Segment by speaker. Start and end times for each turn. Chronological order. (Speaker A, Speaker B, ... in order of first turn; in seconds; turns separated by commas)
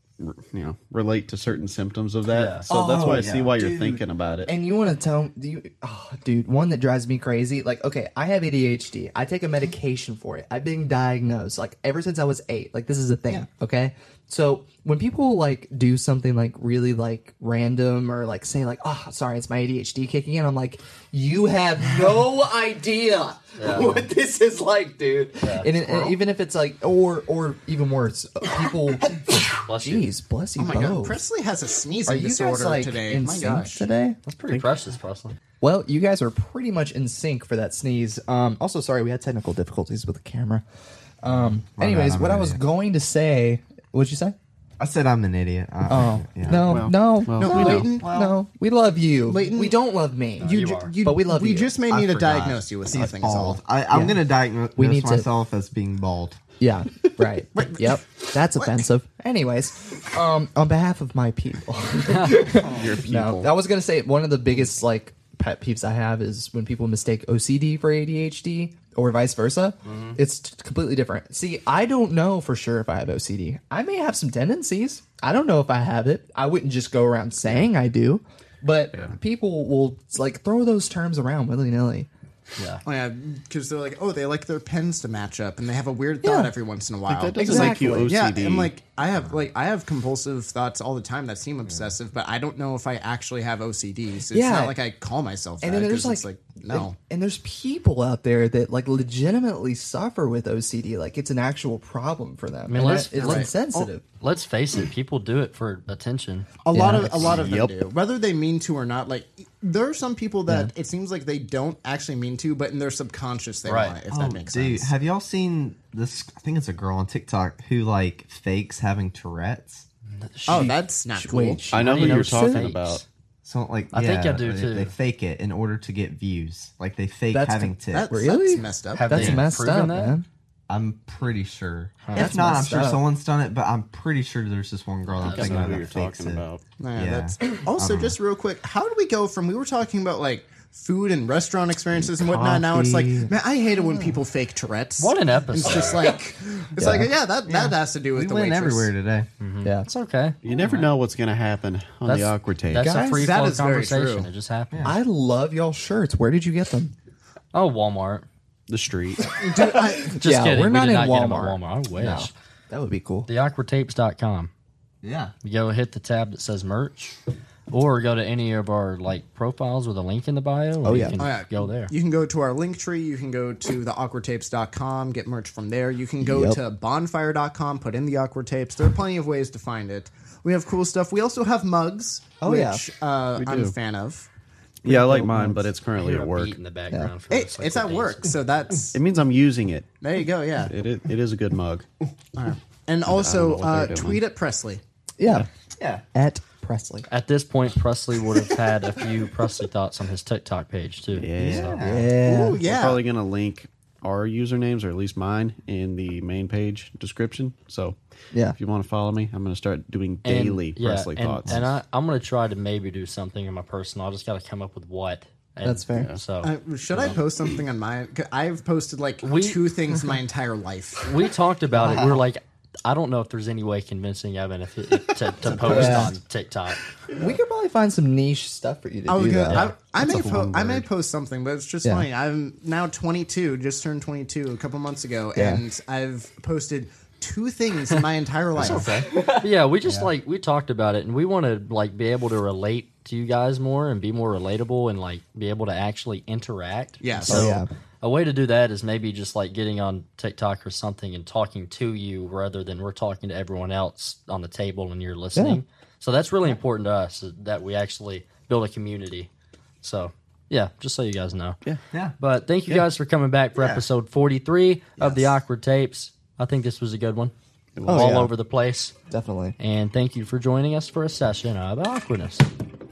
Speaker A: 0.2-4.5, Speaker B: 2.3-2.7, Speaker C: 2.7-4.0, Speaker D: 4.5-31.2, Speaker B: 23.6-24.1, Speaker B: 25.4-26.1, Speaker B: 29.6-30.1, Speaker E: 30.6-33.9, Speaker D: 32.1-34.2, Speaker B: 34.3-35.4, Speaker A: 34.5-34.8, Speaker D: 35.6-40.6, Speaker D: 41.2-44.4, Speaker C: 41.8-42.6, Speaker C: 44.8-46.9, Speaker D: 45.9-51.8, Speaker A: 46.5-47.9, Speaker E: 47.4-48.2, Speaker C: 47.8-48.4, Speaker E: 49.2-49.8, Speaker B: 50.4-50.9, Speaker E: 50.4-53.7, Speaker C: 51.9-56.4, Speaker D: 53.9-55.3, Speaker D: 56.6-82.1, Speaker E: 57.6-58.0, Speaker A: 62.5-63.5, Speaker B: 82.6-82.8, Speaker E: 82.8-97.0, Speaker D: 86.2-86.5, Speaker A: 87.1-88.7, Speaker D: 87.4-88.1, Speaker D: 94.3-94.8, Speaker D: 95.6-104.0, Speaker B: 102.7-103.5, Speaker E: 103.1-103.9, Speaker B: 104.2-106.5, Speaker E: 106.7-115.0, Speaker D: 106.7-107.3, Speaker A: 107.2-107.8, Speaker B: 113.7-114.0, Speaker C: 114.1-119.9, Speaker B: 120.2-120.7, Speaker E: 120.5-121.7, Speaker D: 120.5-122.7, Speaker A: 121.4-123.0, Speaker B: 121.8-123.0, Speaker C: 123.4-128.2, Speaker B: 123.9-124.9, Speaker D: 127.3-130.3, Speaker E: 127.9-129.3, Speaker B: 128.9-130.2, Speaker C: 130.7-138.2, Speaker B: 132.0-132.7, Speaker D: 132.2-133.0, Speaker B: 135.2-135.9, Speaker A: 135.2-136.6, Speaker E: 136.8-148.9, Speaker D: 142.3-143.3, Speaker B: 145.0-146.1, Speaker D: 146.8-147.1, Speaker C: 147.5-149.3, Speaker B: 149.4-150.4, Speaker D: 149.6-149.9, Speaker A: 150.4-152.9, Speaker B: 152.1-154.9, Speaker D: 152.8-153.3, Speaker E: 153.1-154.3, Speaker C: 154.7-155.0, Speaker D: 154.8-156.9, Speaker B: 157.5-158.3, Speaker A: 158.7-159.3, Speaker E: 159.4-160.2, Speaker D: 159.5-163.3, Speaker B: 160.2-162.3, Speaker B: 163.3-164.5, Speaker C: 165.0-165.3, Speaker B: 165.4-167.2, Speaker B: 167.7-171.9, Speaker D: 170.8-171.1, Speaker E: 171.2-184.3, Speaker D: 176.2-176.6, Speaker D: 182.4-182.8, Speaker A: 183.4-183.8, Speaker A: 184.8-186.6, Speaker D: 184.8-185.7, Speaker B: 185.9-188.3, Speaker E: 187.3-189.0, Speaker A: 188.9-189.9, Speaker E: 190.0-190.7, Speaker A: 190.7-191.9, Speaker E: 192.3-194.8, Speaker A: 193.0-194.2, Speaker D: 195.2-195.5, Speaker C: 195.8-196.0, Speaker D: 196.1-197.1, Speaker B: 197.1-201.8, Speaker A: 201.1-201.8, Speaker C: 201.4-202.2, Speaker D: 201.8-202.6, Speaker E: 202.2-203.0, Speaker A: 202.6-208.0, Speaker D: 208.3-208.6, Speaker A: 208.5-211.7, Speaker B: 210.2-217.2, Speaker D: 215.6-216.1, Speaker A: 215.9-216.2, Speaker E: 216.4-221.1, Speaker B: 219.2-219.6, Speaker B: 221.0-226.9, Speaker D: 221.8-222.2, Speaker E: 225.5-226.1, Speaker D: 225.7-226.2, Speaker D: 227.1-230.3, Speaker E: 229.1-239.0, Speaker A: 230.0-230.8, Speaker D: 235.3-235.6, Speaker B: 238.6-259.3, Speaker E: 247.0-247.6, Speaker D: 247.3-247.7, Speaker D: 255.3-255.6, Speaker B: 259.8-261.6, Speaker B: 262.2-267.3, Speaker C: 263.6-263.9, Speaker C: 265.0-265.3, Speaker A: 267.8-268.1, Speaker D: 267.9-268.3, Speaker B: 267.9-268.9, Speaker D: 269.1-269.6, Speaker B: 269.6-272.5